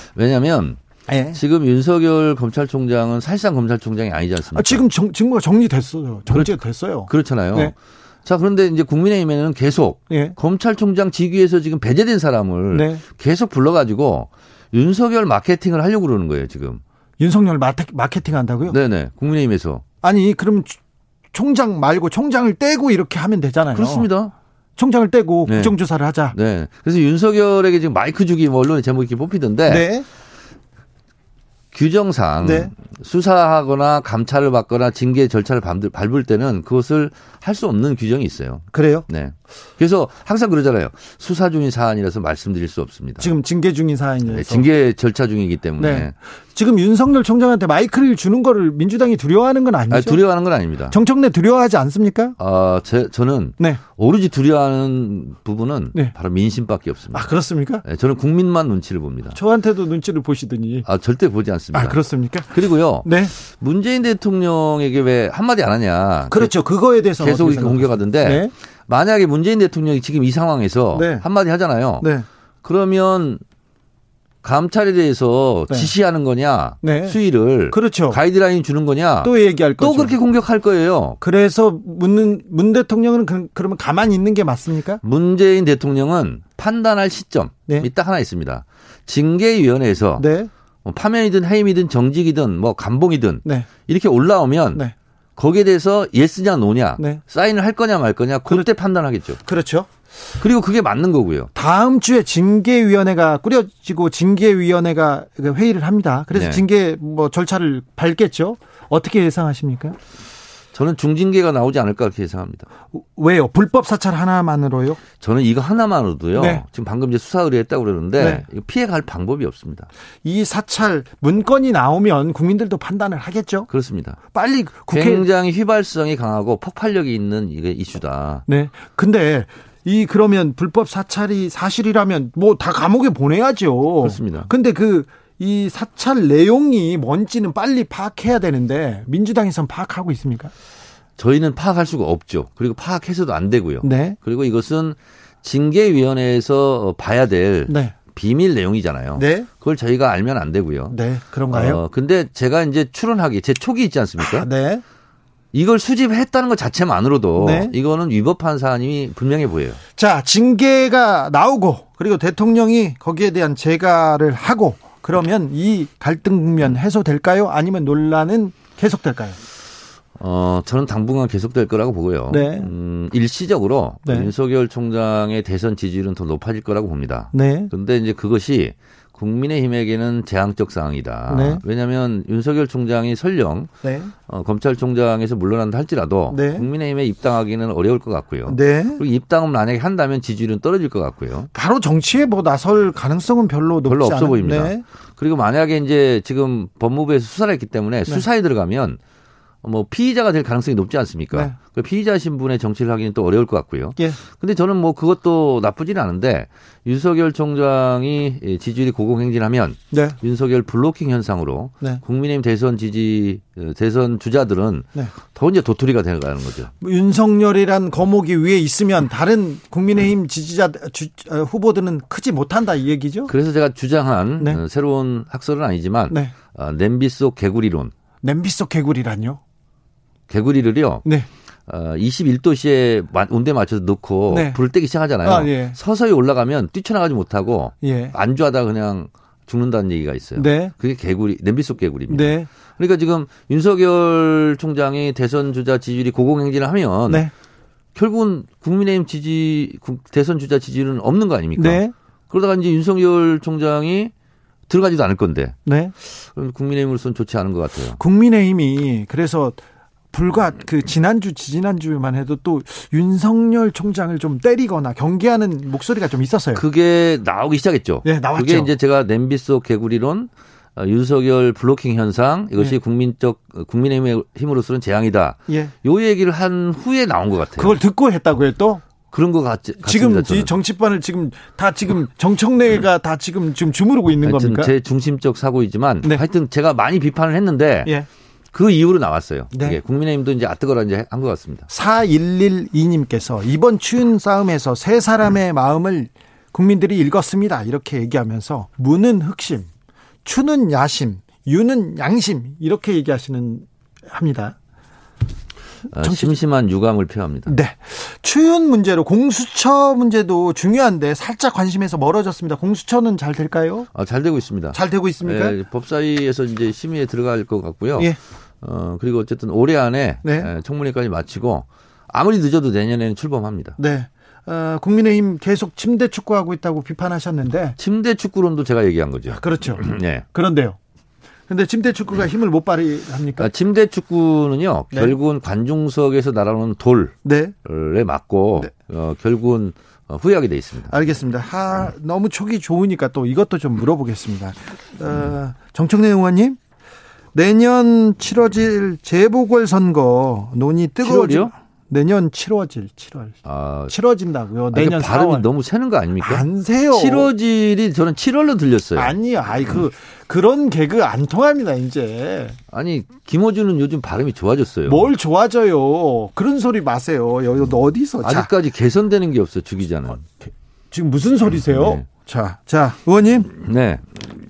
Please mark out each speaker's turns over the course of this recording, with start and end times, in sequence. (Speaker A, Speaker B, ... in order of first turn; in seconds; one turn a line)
Speaker A: 0.2-0.8
Speaker B: 1.1-1.4
Speaker A: 1.3-4.8
Speaker B: 4.5-7.7
Speaker A: 6.3-16.8
Speaker B: 10.1-10.4
Speaker B: 12.7-13.0
Speaker B: 17.2-18.8
Speaker A: 18.7-19.8
Speaker B: 20.0-20.8
Speaker B: 21.3-24.1
Speaker A: 23.7-24.3
Speaker B: 24.8-26.4
Speaker A: 25.5-25.8
Speaker A: 26.3-29.9
Speaker B: 29.7-30.1
Speaker A: 31.7-43.3
Speaker B: 32.4-32.7
Speaker B: 38.7-39.0
Speaker B: 43.2-44.7
Speaker A: 44.3-46.1
Speaker B: 45.8-50.2
Speaker A: 49.9-51.0
Speaker B: 50.9-52.4
Speaker A: 52.4-59.4
Speaker B: 57.1-57.8
Speaker B: 59.4-60.9
Speaker A: 60.9-66.5
Speaker B: 61.7-63.3
Speaker B: 66.3-68.5
Speaker A: 67.2-72.1
Speaker B: 70.9-71.3
Speaker B: 72.0-72.3
Speaker A: 72.6-73.4
Speaker A: 74.4-81.2
Speaker B: 76.8-77.2
Speaker B: 77.7-78.2
Speaker B: 79.2-80.2
Speaker B: 81.2-85.0
Speaker A: 85.0-90.3
Speaker B: 90.2-90.5
Speaker A: 90.8-94.8
Speaker A: 95.4-99.4
Speaker B: 99.5-99.9
Speaker A: 100.4-101.5
Speaker B: 101.5-110.0
Speaker A: 106.3-106.6
Speaker A: 110.7-112.7
Speaker B: 112.9-115.0
Speaker A: 115.2-119.9
Speaker B: 116.3-116.6
Speaker B: 118.2-118.5
Speaker B: 120.2-123.7
Speaker A: 123.7-124.2
Speaker B: 124.3-125.3
Speaker A: 124.9-128.4
Speaker B: 128.5-140.5
Speaker A: 134.0-134.5
Speaker A: 141.2-151.0
Speaker B: 143.8-144.2
Speaker B: 147.7-147.9
Speaker B: 149.2-149.5
Speaker B: 150.9-151.8
Speaker A: 151.5-154.5
Speaker B: 154.2-154.8
Speaker A: 155.5-159.8
Speaker B: 157.4-157.7
Speaker B: 160.0-169.4
Speaker A: 170.2-183.7
Speaker B: 172.3-172.7
Speaker B: 174.1-174.3
Speaker B: 177.3-177.7
Speaker B: 181.3-181.6
Speaker B: 183.8-184.1
Speaker A: 184.3-191.5
Speaker B: 186.3-186.7
Speaker B: 188.5-189.0
Speaker B: 191.5-194.8
Speaker A: 193.8-199.0
Speaker A: 199.6-216.7
Speaker B: 209.9-210.2
Speaker B: 216.8-223.3
Speaker A: 223.3-227.9
Speaker B: 228.2-229.4
Speaker A: 230.3-231.1
Speaker A: 231.7-247.3
Speaker B: 234.3-234.6
Speaker B: 235.2-235.8
Speaker B: 237.8-238.2
Speaker B: 240.4-240.7
Speaker B: 242.1-242.5
Speaker A: 247.9-254.1
Speaker B: 251.6-251.9
Speaker A: 254.7-258.0
Speaker B: 255.7-255.9
Speaker B: 258.0-266.6
Speaker A: 266.5-277.8
Speaker B: 268.0-268.7
Speaker B: 277.6-278.8
Speaker A: 279.1-280.6
Speaker B: 279.8-284.7
Speaker A: 284.2-287.9
Speaker A: 288.5-291.7
Speaker B: 289.5-289.8
Speaker B: 291.7-299.7
Speaker B: 300.2-304.6
Speaker A: 305.9-307.6
Speaker B: 306.0-306.4
Speaker B: 307.5-313.9
Speaker A: 313.9-323.8
Speaker B: 314.7-315.6
Speaker B: 320.2-320.5
Speaker B: 323.8-327.8
Speaker A: 327.8-330.2
Speaker B: 329.3-330.8
Speaker B: 331.5-333.5
Speaker A: 333.4-341.0
Speaker B: 334.9-335.2
Speaker B: 337.2-337.6
Speaker B: 340.9-346.6
Speaker B: 347.3-355.5
Speaker A: 351.0-351.5
Speaker A: 353.4-354.0
Speaker A: 354.7-359.1
Speaker B: 356.2-357.3
Speaker B: 359.0-362.6
Speaker A: 362.7-365.1
Speaker B: 364.9-368.5
Speaker A: 368.2-370.2
Speaker B: 370.4-373.5
Speaker A: 371.7-372.1
Speaker A: 373.5-374.2